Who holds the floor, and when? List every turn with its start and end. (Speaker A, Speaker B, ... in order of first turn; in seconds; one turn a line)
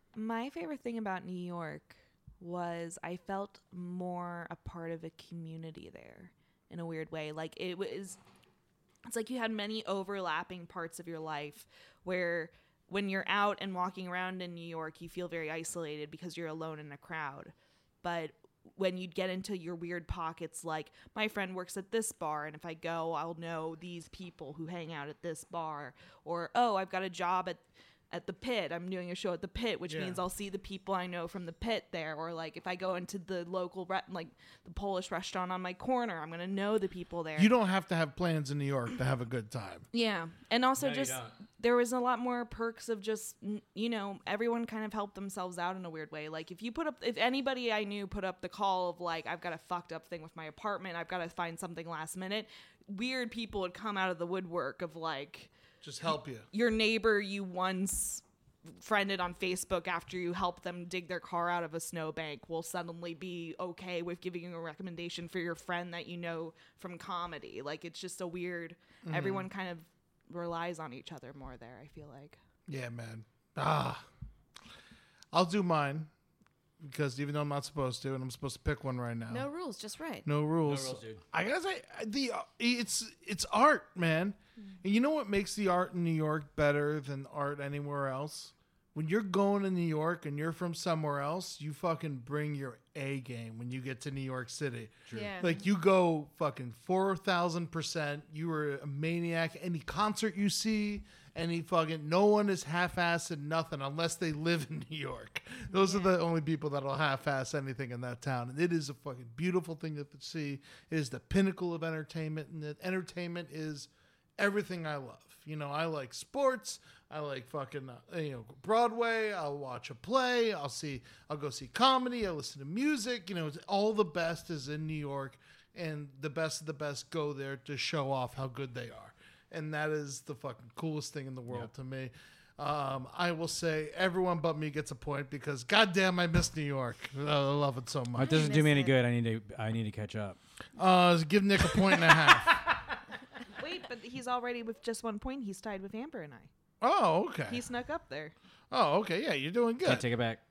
Speaker A: 0.1-8.2
Speaker A: 9.1-37.5
Speaker B: 29.9-30.2
Speaker B: 37.4-39.9
Speaker A: 39.9-55.5
Speaker C: 40.8-41.4
Speaker B: 55.8-56.5
Speaker A: 56.5-72.4
Speaker B: 69.0-69.5
Speaker B: 72.7-74.0
Speaker B: 75.3-76.1
Speaker B: 76.8-79.5
Speaker D: 79.3-80.3
Speaker B: 80.2-138.6
Speaker C: 80.6-81.2
Speaker C: 95.1-95.3
Speaker D: 95.1-95.7
Speaker D: 105.8-106.1
Speaker C: 138.2-140.4
Speaker D: 138.2-139.0
Speaker B: 140.8-142.7
Speaker A: 143.6-146.5
Speaker B: 146.8-147.6
Speaker A: 147.5-148.3
Speaker B: 148.7-150.1
Speaker C: 149.8-150.4